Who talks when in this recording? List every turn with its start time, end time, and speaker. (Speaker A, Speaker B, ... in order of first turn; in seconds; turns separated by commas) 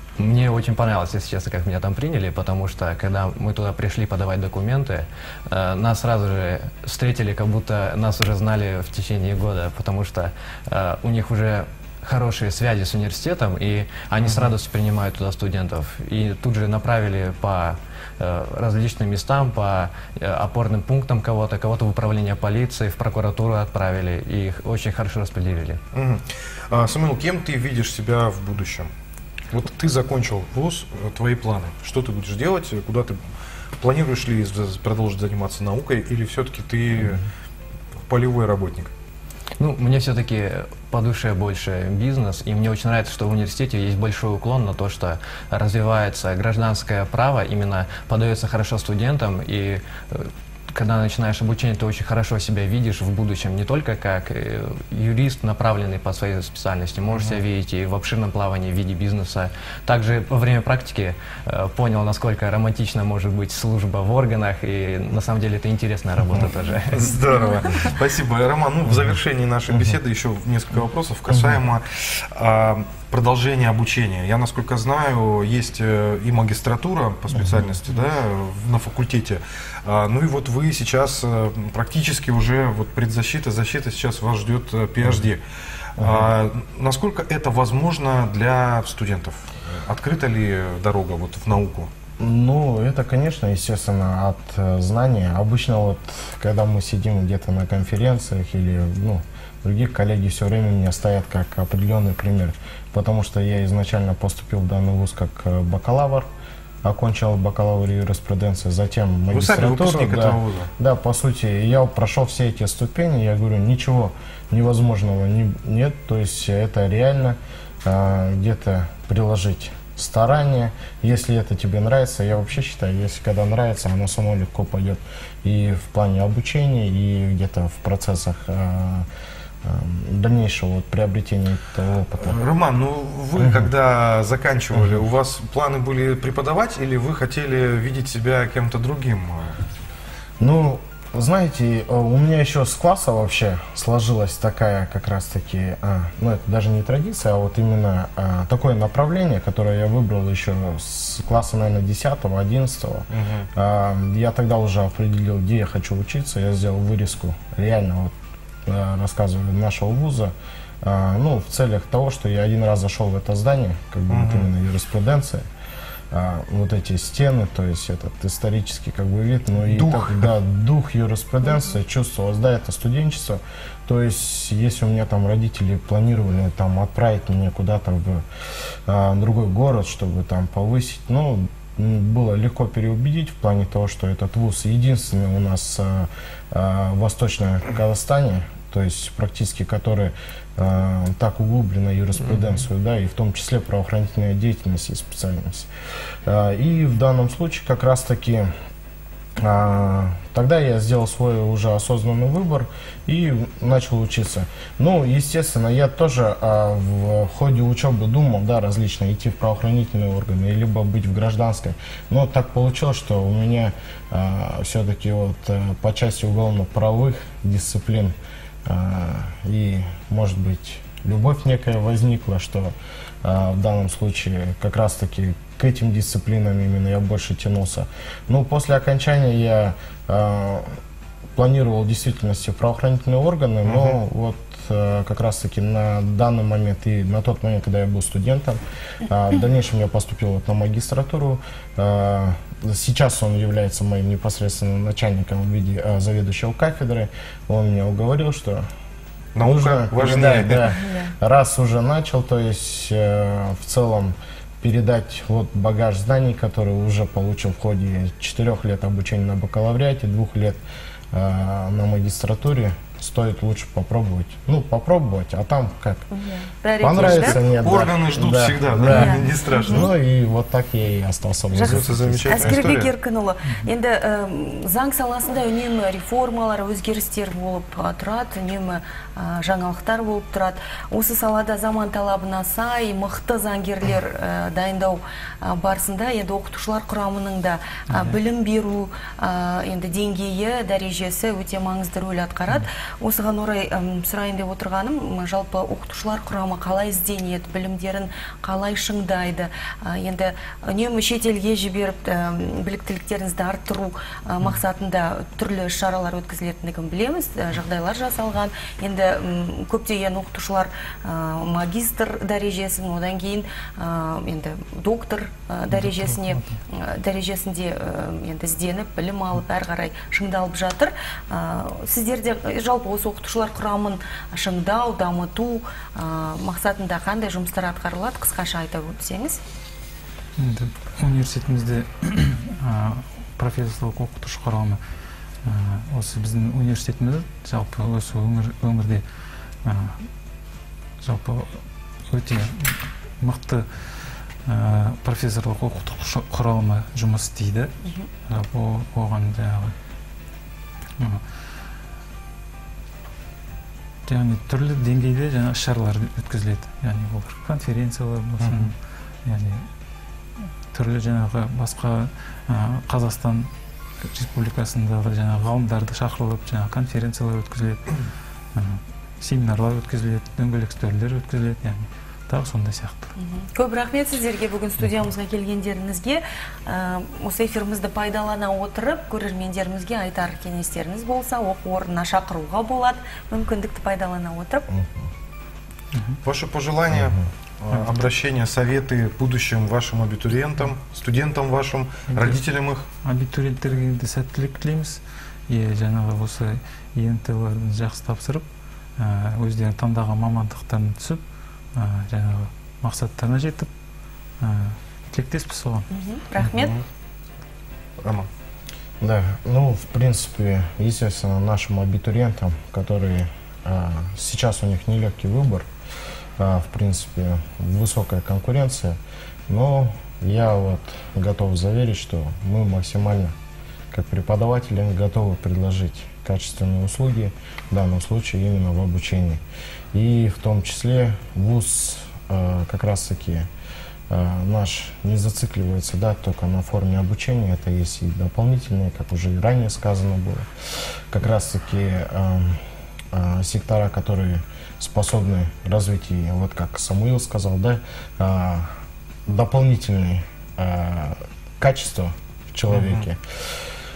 Speaker A: 0.2-25.8, Speaker B: 14.2-14.5, Speaker B: 25.9-28.9, Speaker B: 29.5-33.2, Speaker B: 33.8-37.2, Speaker B: 38.0-38.9, Speaker A: 39.6-67.2, Speaker B: 57.1-57.4, Speaker B: 67.0-85.4, Speaker C: 71.3-71.6, Speaker C: 77.3-77.7, Speaker B: 86.0-91.9, Speaker C: 86.0-86.3, Speaker C: 92.2-106.3, Speaker C: 106.8-129.1, Speaker B: 109.3-110.7, Speaker C: 129.6-132.4, Speaker B: 132.2-139.6, Speaker C: 133.4-133.7, Speaker C: 140.4-158.1, Speaker B: 153.1-153.5, Speaker C: 158.7-165.4, Speaker B: 164.1-164.5, Speaker C: 166.1-178.2, Speaker B: 169.7-170.3, Speaker C: 178.9-195.7, Speaker C: 196.2-198.5, Speaker C: 199.4-218.1, Speaker C: 218.7-230.7, Speaker C: 231.3-248.7, Speaker B: 233.7-234.0, Speaker B: 249.3-250.7, Speaker C: 249.4-260.6, Speaker D: 250.7-251.1, Speaker C: 261.1-266.0, Speaker D: 266.1-267.4, Speaker B: 266.8-269.9, Speaker C: 266.9-272.6, Speaker D: 268.9-269.9, Speaker D: 271.5-329.4, Speaker B: 271.6-272.9, Speaker E: 287.9-288.2, Speaker E: 315.7-316.6, Speaker E: 330.4-334.8, Speaker E: 335.4-339.0, Speaker E: 339.6-340.0, Speaker E: 341.0-343.6, Speaker E: 344.4-347.7, Speaker E: 348.3-349.7, Speaker E: 351.0-351.2, Speaker E: 354.1-359.6, Speaker B: 358.4-358.7, Speaker E: 360.7-363.5, Speaker E: 364.0-368.0, Speaker E: 368.5-373.1, Speaker D: 373.2-384.7, Speaker C: 384.7-385.1, Speaker E: 385.9-386.2, Speaker B: 386.2-392.9, Speaker C: 386.9-387.2, Speaker E: 392.1-392.4, Speaker E: 393.0-398.4, Speaker E: 399.0-403.7, Speaker E: 404.4-405.9, Speaker D: 405.9-406.7, Speaker B: 406.6-406.8, Speaker B: 408.0-408.3, Speaker C: 409.0-415.7, Speaker C: 416.4-423.3, Speaker C: 423.9-429.4, Speaker C: 429.9-433.5, Speaker C: 434.1-440.5, Speaker C: 441.1-442.6, Speaker C: 443.1-448.7, Speaker C: 449.3-453.2, Speaker B: 452.7-453.1